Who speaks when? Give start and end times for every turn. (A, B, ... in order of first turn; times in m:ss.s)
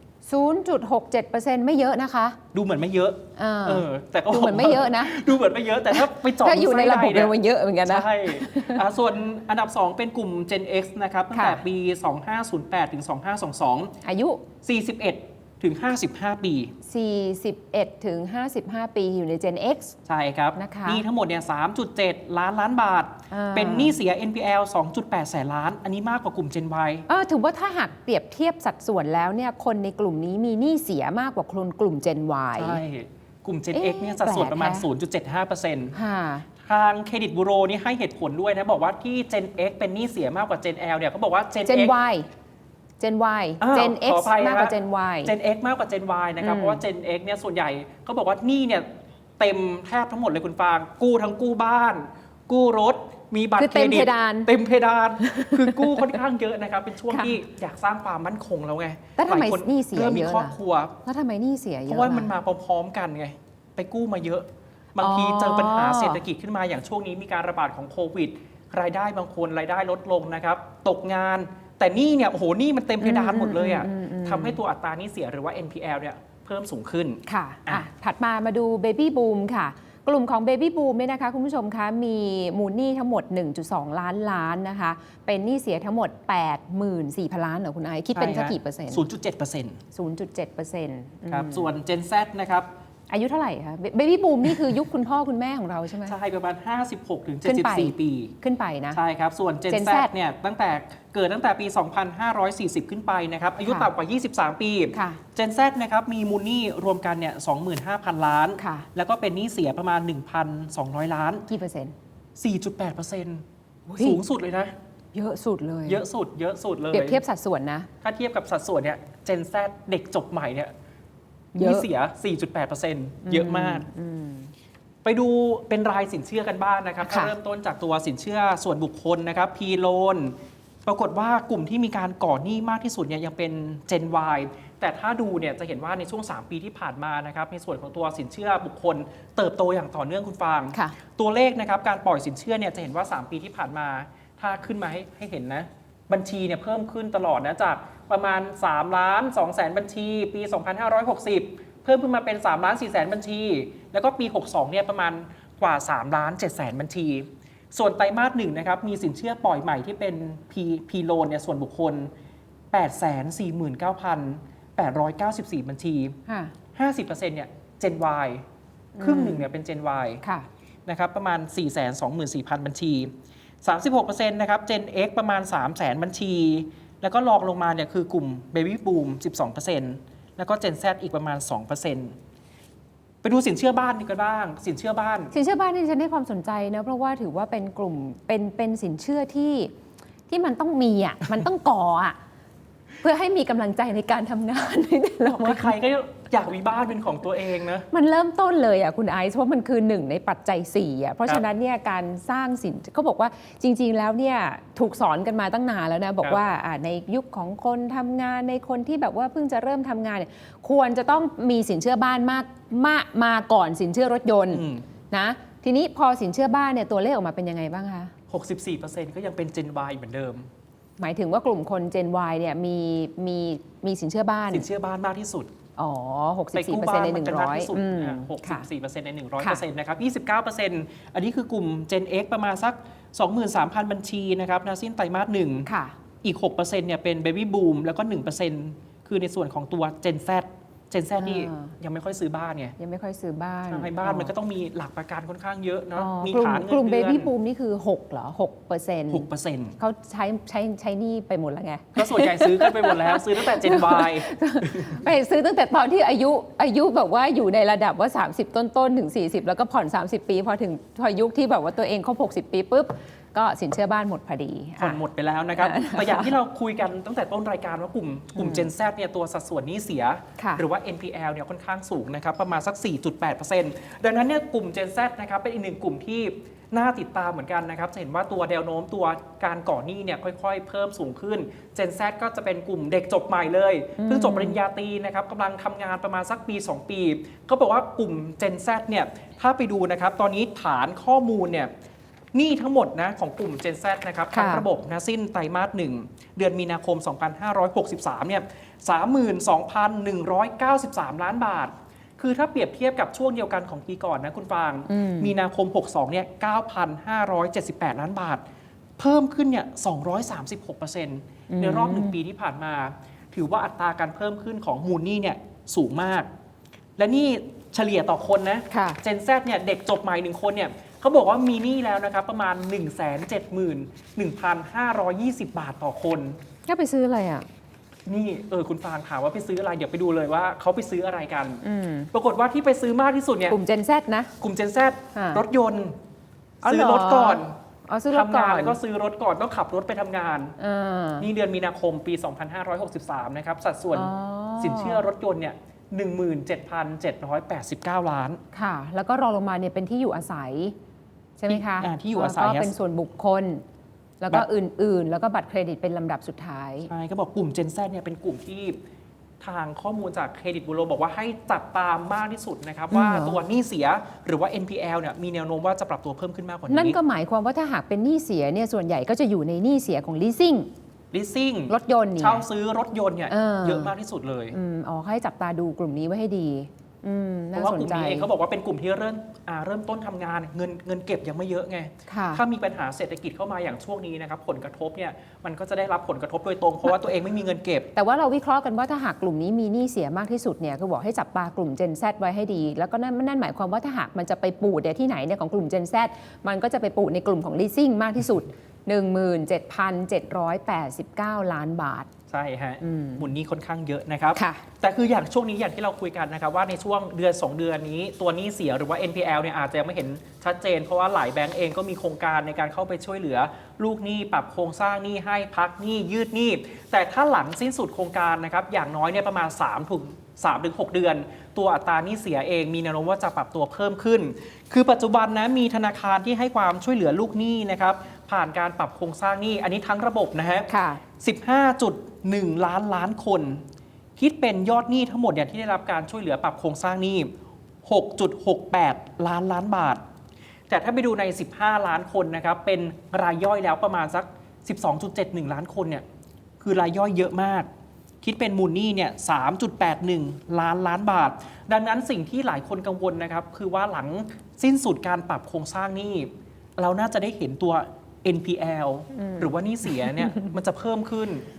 0:00.3-0:02.4 A
0:02.5-0:07.3 B
0:03.4-0:05.3 A
0:05.9-0:08.8 A
0:07.8-0:14.0 B
0:11.3-0:11.6 A
0:14.0-0:14.4 A
0:14.6-0:16.8 B
0:16.9-0:20.0 A
0:20.1-0:27.1 B
0:20.6-0:21.0 A
0:23.3-0:24.0 A
0:27.1-0:32.8 A
0:32.6-0:36.0 B
0:33.7-0:34.9 A
0:35.9-0:36.5 A
0:36.6-0:41.9 B
0:41.7-0:42.3 A
0:43.0-0:45.3 A
0:43.6-0:48.9 B
0:46.4-0:46.8 A
0:49.4-1:01.0 B
0:53.6-0:54.5 A
0:55.2-0:56.2 A
0:57.1-0:57.4 A
0:59.2-1:02.3 A
1:01.9-1:17.8 B
1:05.0-1:06.2 A
1:13.0-1:14.6 A
1:17.3-1:29.1 A
1:28.1-1:29.8 B
1:29.9-1:31.7 A
1:31.3-1:32.7 B
1:33.1-1:36.2 A
1:36.1-1:38.4 B
1:37.4-1:39.0 A
1:38.9-1:51.5 B
1:39.7-1:40.1 A
1:43.6-1:43.9 A
1:44.9-1:45.2 A
1:48.6-1:48.9 A
1:51.5-1:52.0 A
1:52.4-1:53.4 B
1:53.9-1:54.2 A
1:54.0-1:54.7 B
1:55.1-1:56.0 A
1:55.9-1:57.2 B
1:56.9-1:57.9 A
1:58.0-2:00.7 B
2:01.6-2:01.9 A
2:01.6-2:03.8 B
2:03.3-2:04.5 A
2:05.0-2:10.4 B
2:07.0-2:07.3 A
2:10.9-2:42.1 B
2:42.7-2:46.2 B
2:46.3-2:46.6 A
2:46.8-2:48.4 B
2:49.0-2:49.5 A
2:49.0-2:50.2 B
2:50.9-3:02.2 B
3:03.2-3:05.3 B
3:05.3-3:09.7 A
3:10.3-3:12.2 A
3:13.0-3:15.8 A
3:15.4-3:17.9 B
3:17.9-3:38.1 A
3:34.5-3:34.9 B
3:38.3-3:40.5 B
3:41.0-3:44.7 A
3:44.5-3:45.5 B
3:45.8-3:48.7 A
3:46.5-3:55.7 B
3:55.7-3:56.0 A
3:56.2-4:02.8 B
4:01.2-4:01.7 A
4:02.8-4:04.3 A
4:03.7-4:07.3 B
4:06.0-4:09.3 A
4:09.1-4:09.8 B
4:09.8-4:25.0 A
4:12.0-4:14.9 B
4:24.8-4:51.7 B
4:25.5-4:26.3 A
4:28.4-4:28.7 A
4:30.4-4:30.6 A
4:44.0-4:44.6 A
4:52.3-5:08.4 B
4:54.3-4:54.6 A
5:04.9-5:05.4 A
5:09.0-5:16.3 B
5:11.5-5:12.2 A
5:17.0-5:26.4 B
5:18.7-5:19.0 A
5:26.7-5:27.5 A
5:28.1-5:33.6 B
5:31.6-5:32.1 A
5:33.5-5:34.3 A
5:34.4-5:36.0 B
5:35.2-5:35.4 A
5:36.6-5:38.8 A
5:36.6-5:37.6 B
5:38.1-5:40.6 B
5:40.6-5:41.3 A
5:41.2-5:48.4 B
5:43.9-5:45.0 A
5:48.5-5:50.8 A
5:51.4-5:53.6 A
5:51.5-5:52.8 B
5:54.2-5:56.9 A
5:56.9-5:58.8 B
5:59.4-6:07.0 B
6:02.9-6:03.4 A
6:06.7-6:10.7 A
6:11.1-6:14.6 B
6:11.7-6:12.5 A
6:13.3-6:13.9 A
6:14.5-6:18.3 A
6:17.5-6:27.9 B
6:22.1-6:22.4 A
6:28.0-6:42.1 A
6:42.3-7:13.6 B
6:42.8-6:43.3 A
6:44.4-6:44.6 A
7:10.7-7:11.0 A
7:14.2-7:17.3 B
7:17.8-7:20.0 B
7:20.7-7:26.0 B
7:26.6-7:27.7 B
7:28.2-7:41.4 B
7:39.1-7:40.6 A